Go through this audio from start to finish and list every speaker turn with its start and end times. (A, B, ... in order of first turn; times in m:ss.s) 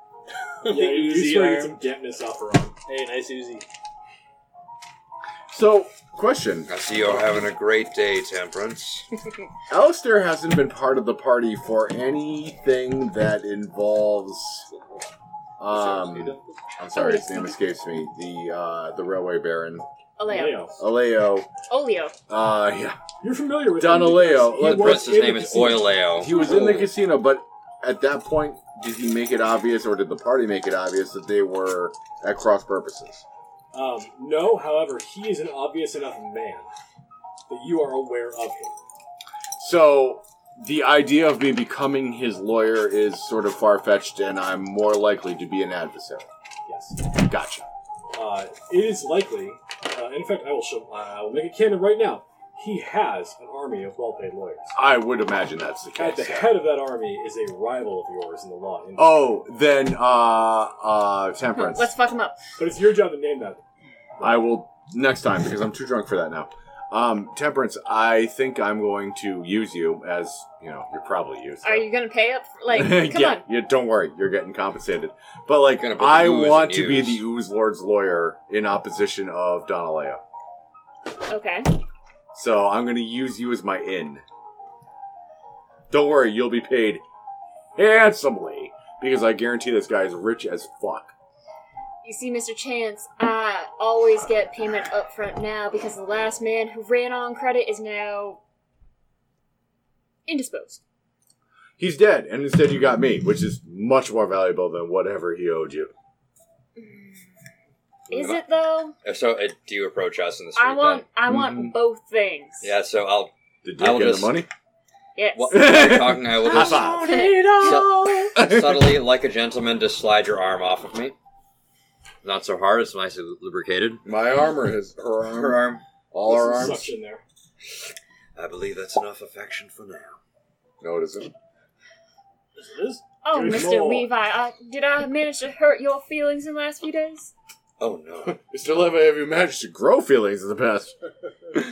0:00.6-0:01.8 A
0:00.6-0:02.8 B
0:02.9-0:03.6 A
0:05.5-0:07.3 C
0:06.7-0:09.1 D
0:09.7-0:14.6 C
0:15.6-0:19.8 C
0:15.8-0:16.3 B
0:16.9-0:17.5 E
0:20.2-0:20.7 E
0:20.2-0:20.8 B
0:20.8-0:21.5 C
0:21.7-0:22.1 E
0:22.3-0:23.0 C
0:23.2-0:25.9 B
0:23.7-0:25.2 C
0:24.6-0:26.9 D
0:26.2-0:33.2 C
0:33.7-0:36.7 B
0:37.5-0:38.8 B
0:39.6-0:46.3 C
0:46.6-0:47.0 B
0:47.1-0:47.6 C
0:48.1-0:54.8 B
0:54.7-0:56.6 C
0:55.9-0:59.4 B
0:59.0-1:01.9 C
1:01.5-1:02.4 E
1:02.6-1:03.6 B
1:04.2-1:04.5 B
1:04.2-1:11.9 C
1:11.6-1:13.4 E
1:12.7-1:20.2 C
1:15.8-1:17.2 D
1:21.3-1:21.7 E
1:22.3-1:24.2 C
1:25.9-1:27.0 C
1:27.8-1:31.1 C
1:32.0-1:38.4 E
1:40.2-1:40.8 E
1:41.8-1:45.9 C
1:46.8-1:47.1 E
1:48.1-1:49.0 E
1:48.1-1:48.4 D
1:49.0-1:51.1 D
1:50.6-1:52.7 E
1:51.3-1:51.7 C
1:52.6-1:54.4 D
1:53.6-1:54.5 C
1:55.2-1:55.8 E
1:55.3-2:01.1 D
1:55.5-1:58.8 C
1:56.4-1:58.4 E
2:02.2-2:04.0 D
2:04.0-2:06.9 C
2:06.2-2:07.2 B
2:08.4-2:10.2 D
2:10.8-2:11.3 C
2:12.6-2:13.0 A
2:13.2-2:17.3 E
2:13.3-2:14.1 B
2:17.8-2:18.8 D
2:18.2-2:21.0 C